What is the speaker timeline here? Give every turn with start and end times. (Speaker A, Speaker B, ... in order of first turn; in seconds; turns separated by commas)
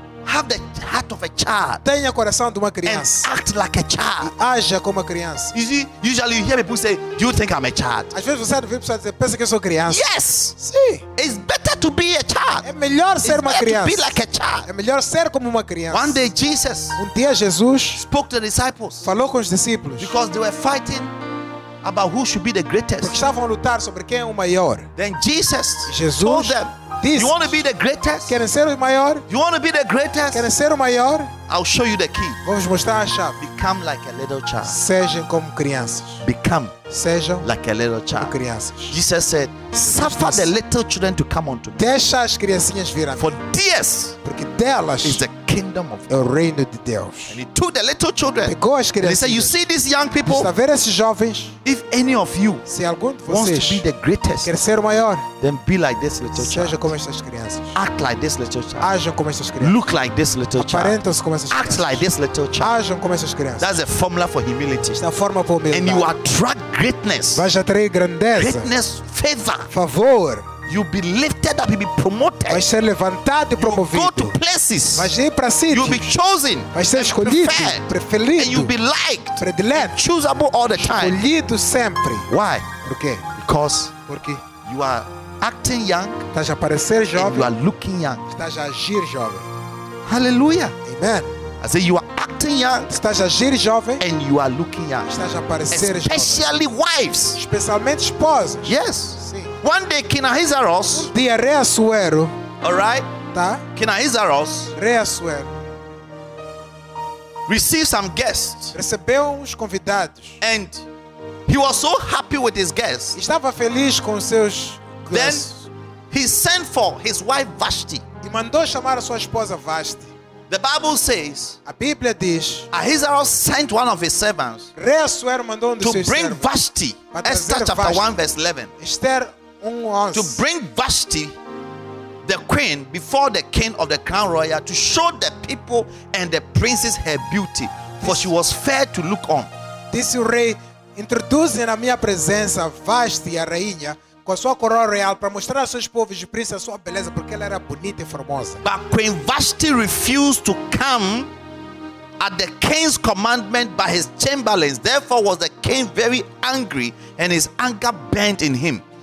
Speaker A: 0.2-1.8, Speaker B: 1.8-3.3, Speaker A: 2.9-4.3, Speaker B: 4.2-5.5, Speaker A: 5.5-8.1, Speaker B: 8.1-10.1, Speaker A: 9.9-10.6, Speaker B: 10.6-11.0, Speaker A: 11.2-12.7, Speaker B: 12.6-14.1, Speaker A: 13.2-14.7, Speaker B: 14.7-16.2, Speaker A: 15.9-17.0, Speaker B: 17.0-18.0, Speaker A: 17.9-19.1, Speaker B: 19.0-20.1, Speaker A: 20.0-21.1, Speaker A: 21.8-23.2, Speaker B: 23.0-24.9, Speaker A: 25.0-28.4, Speaker B: 25.9-27.6, Speaker B: 28.3-29.3, Speaker A: 29.3-30.5, Speaker B: 30.3-31.3, Speaker A: 31.5-32.4, Speaker B: 32.4-33.4, Speaker A: 33.4-34.8, Speaker B: 34.6-36.2, Speaker A: 36.2-36.7, Speaker B: 36.9-37.5, Speaker A: 37.4-38.3, Speaker B: 38.2-39.0, Speaker A: 38.9-41.9, Speaker B: 39.8-40.5, Speaker B: 41.8-43.4, Speaker A: 43.2-44.2, Speaker B: 44.2-45.2, Speaker A: 45.0-46.2, Speaker B: 46.1-47.4, Speaker A: 47.3-50.5, Speaker B: 48.5-49.6, Speaker B: 50.3-51.5, Speaker A: 51.6-52.6, Speaker B: 52.7-53.8, Speaker A: 53.3-54.5, Speaker B: 54.4-55.3, Speaker A: 55.4-56.9, Speaker B: 56.3-57.8, Speaker A: 57.8-58.9, Speaker B: 58.8-59.8, Speaker A: 59.6-61.0, Speaker B: 60.6-62.0, Speaker A: 61.5-62.7, Speaker B: 62.6-63.7, Speaker A: 63.6-65.0, Speaker B: 65.0-66.1, Speaker A: 65.7-67.4, Speaker B: 67.3-68.7, Speaker A: 68.3-69.7, Speaker B: 69.7-70.5, Speaker A: 70.7-72.7, Speaker B: 72.5-74.4, Speaker A: 73.6-75.1, Speaker B: 75.0-76.1, Speaker A: 75.7-81.2, Speaker B: 76.7-78.7, Speaker B: 79.4-80.0, Speaker B: 80.8-82.3, Speaker A: 82.3-82.7, Speaker B: 82.8-83.3, Speaker A: 83.4-83.9, Speaker B: 84.1-84.4, Speaker A: 84.6-86.3, Speaker B: 86.3-87.5, Speaker A: 87.2-88.3, Speaker B: 88.3-89.5, Speaker A: 90.1-90.8, Speaker B: 90.8-91.3, Speaker A: 91.6-92.9, Speaker B: 92.9-94.0, Speaker A: 94.0-95.1, Speaker B: 95.1-96.5, Speaker A: 95.7-97.4, Speaker B: 97.4-99.5, Speaker A: 98.7-101.1, Speaker B: 100.9-102.3, Speaker A: 102.6-103.1, Speaker B: 103.3-103.6, Speaker A: 103.7-104.7, Speaker B: 104.8-105.5, Speaker A: 107.5-108.7, Speaker B: 108.7-110.4, Speaker A: 110.4-110.8, Speaker A: 111.5-113.2, Speaker B: 113.2-115.7, Speaker A: 115.1-115.5, Speaker A: 116.1-118.0, Speaker B: 118.2-120.1, Speaker A: 120.5-121.6, Speaker B: 121.7-122.7, Speaker A: 122.7-124.7, Speaker B: 124.8-126.5, Speaker A: 125.8-128.7, Speaker B: 127.1-128.1, Speaker B: 128.8-130.4, Speaker A: 130.1-131.3, Speaker A: 132.2-139.5, Speaker B: 138.0-138.3, Speaker B: 139.9-148.6, Speaker A: 148.6-151.3, Speaker A: 152.2-158.8